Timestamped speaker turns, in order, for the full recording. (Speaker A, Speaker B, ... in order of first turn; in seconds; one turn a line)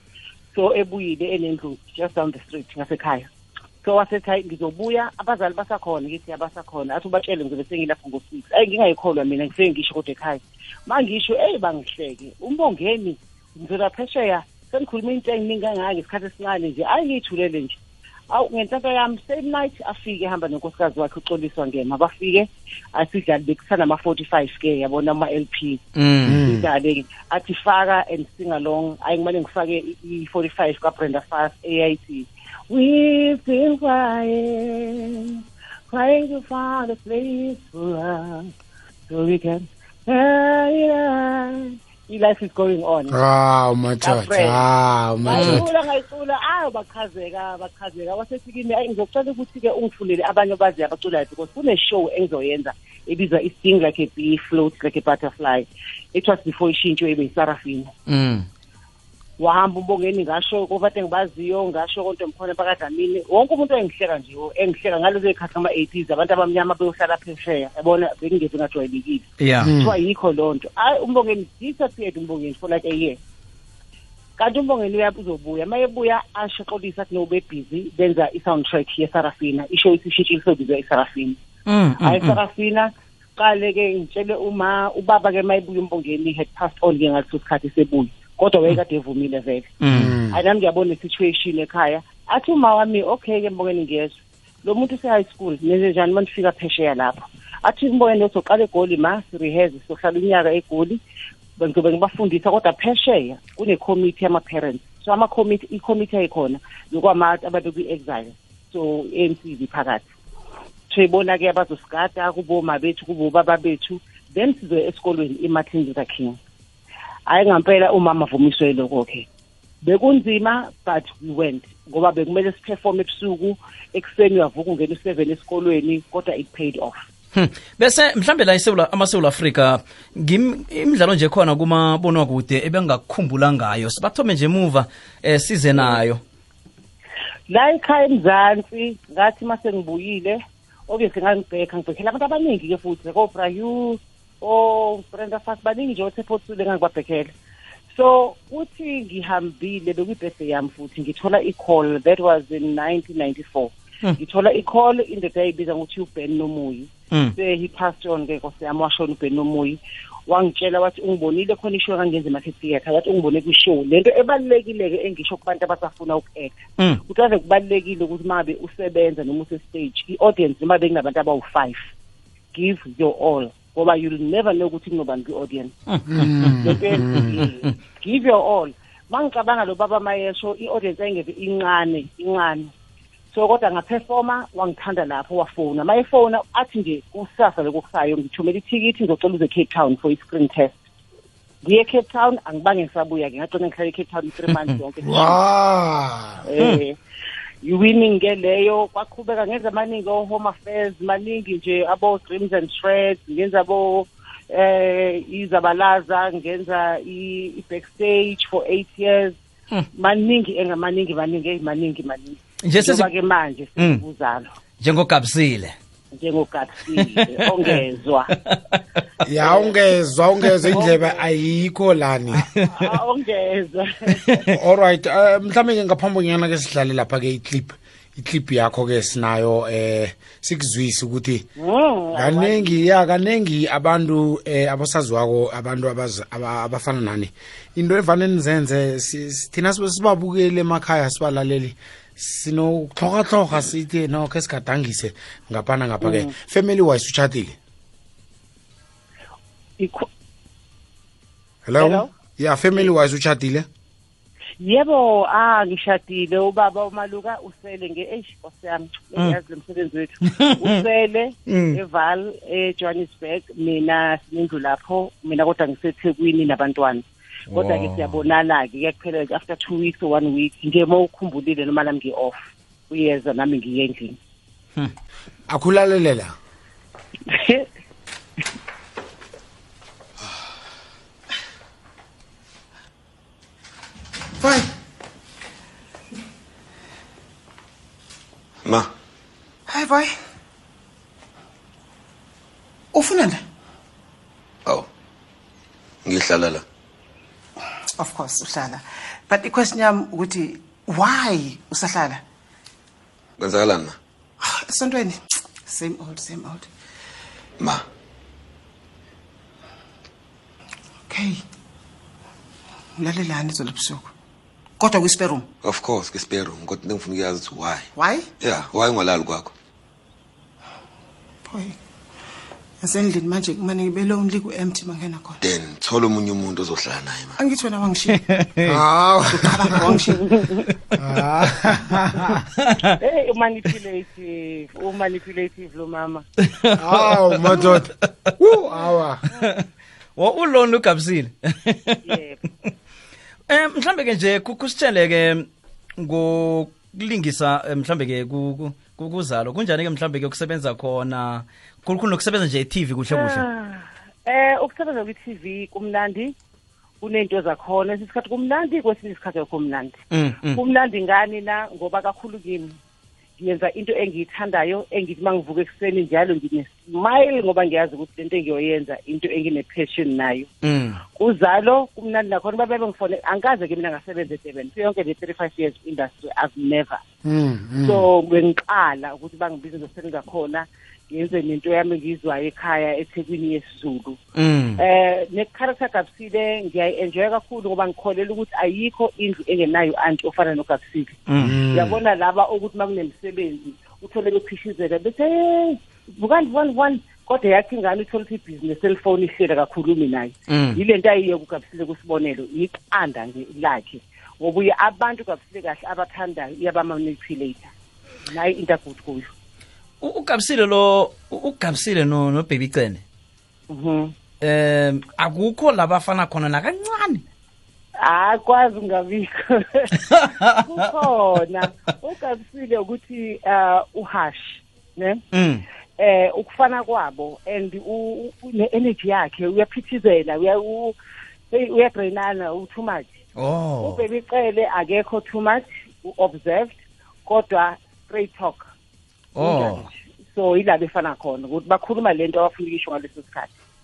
Speaker A: 0.5-3.3
Speaker A: 3.8-17.8
Speaker A: 18.3-25.8
Speaker B: 25.9-26.4
Speaker C: 26.2-26.7
Speaker A: 26.4-38.5
Speaker A: 39.1-43.2
Speaker C: 43.1-45.6
Speaker A: 44.0-44.7
Speaker A: 45.2-57.9
Speaker B: 45.3-45.6
Speaker B: 58.1-58.5
Speaker A: 59.4-73.2
Speaker B: 69.4-69.7
Speaker C: 69.6-70.0
Speaker A: 74.4-81.4
Speaker B: 81.7-82.4
Speaker A: 82.0-89.7
Speaker B: 89.8-90.2
Speaker C: 89.9-90.4
Speaker A: 90.3-101.0
Speaker A: 101.6-110.1
Speaker A: 110.9-116.4
Speaker A: 117.3-119.2
Speaker A: 119.8-127.0
Speaker B: 127.3-136.2
Speaker A: 137.5-147.3
Speaker A: 147.9-171.8
Speaker A: 172.5-175.7
Speaker B: 175.9-177.7
Speaker C: 176.1-177.5
Speaker A: 176.6-182.7
Speaker A: 183.3-190.8
Speaker A: 191.6-195.4
Speaker C: 195.0-196.4
Speaker A: 196.4-197.0
Speaker A: 197.6-209.3
Speaker A: 209.9-214.5
Speaker B: 212.7-213.1
Speaker B: 214.8-215.7
Speaker A: 216.2-218.3
Speaker B: 217.0-217.8
Speaker B: 218.4-218.8
Speaker C: 219.2-222.5
Speaker A: 219.4-219.8
Speaker A: 220.7-221.3
Speaker A: 222.5-224.5
Speaker C: 224.5-231.4
Speaker A: 231.6-232.8
Speaker C: 232.1-247.6
Speaker A: 246.0-246.3
Speaker A: 249.8-250.1
Speaker C: 251.7-253.7
Speaker A: 251.8-252.1
Speaker A: 254.6-272.4
Speaker B: 260.2-260.7
Speaker B: 261.5-261.8
Speaker B: 267.5-268.2
Speaker A: 272.9-274.2
Speaker C: 275.5-276.3
Speaker A: 277.3-277.6
Speaker D: 284.4-284.7
Speaker E: 288.6-288.9
Speaker D: 289.7-290.1
Speaker D: 292.9-293.4
Speaker E: 296.0-296.6
Speaker D: 298.0-302.2
Speaker E: 303.4-304.0
Speaker D: 304.4-306.7
Speaker E: 307.6-307.9
Speaker D: 311.1-311.4
Speaker D: 313.0-314.1
Speaker D: 314.8-315.5
Speaker E: 315.6-317.9
Speaker D: 317.9-318.3
Speaker E: 318.4-319.5
Speaker D: 321.5-321.8
Speaker D: 322.8-325.4
Speaker E: 325.4-327.4
Speaker D: 327.4-328.2
Speaker B: 328.1-328.8
Speaker C: 328.6-329.6
Speaker D: 329.3-330.4
Speaker A: 330.2-330.6
Speaker C: 331.0-332.4
Speaker B: 332.6-332.9
Speaker A: 333.0-336.2
Speaker B: 336.6-337.9
Speaker C: 336.8-339.2
Speaker B: 340.2-342.1
Speaker A: 342.0-342.4
Speaker B: 343.5-345.5
Speaker B: 346.0-353.4
Speaker A: 353.1-356.3
Speaker A: 357.0-360.0
Speaker B: 360.1-360.6
Speaker A: 360.5-362.7
Speaker A: 363.4-370.5
Speaker B: 370.6-371.0
Speaker A: 371.1-377.0
Speaker C: 377.2-378.1
Speaker A: 377.8-384.2
Speaker B: 384.4-384.8
Speaker A: 384.8-391.2
Speaker B: 391.3-391.6
Speaker C: 391.4-392.0
Speaker A: 391.7-407.7
Speaker B: 400.5-400.8
Speaker A: 408.3-409.3
Speaker B: 410.0-413.0
Speaker A: 413.7-414.1
Speaker B: 414.4-417.2
Speaker A: 418.0-425.2
Speaker B: 425.3-425.6
Speaker A: 426.0-430.9
Speaker A: 431.5-433.1
Speaker B: 433.4-434.0
Speaker A: 433.8-438.7
Speaker B: 439.4-439.9
Speaker A: 439.4-443.5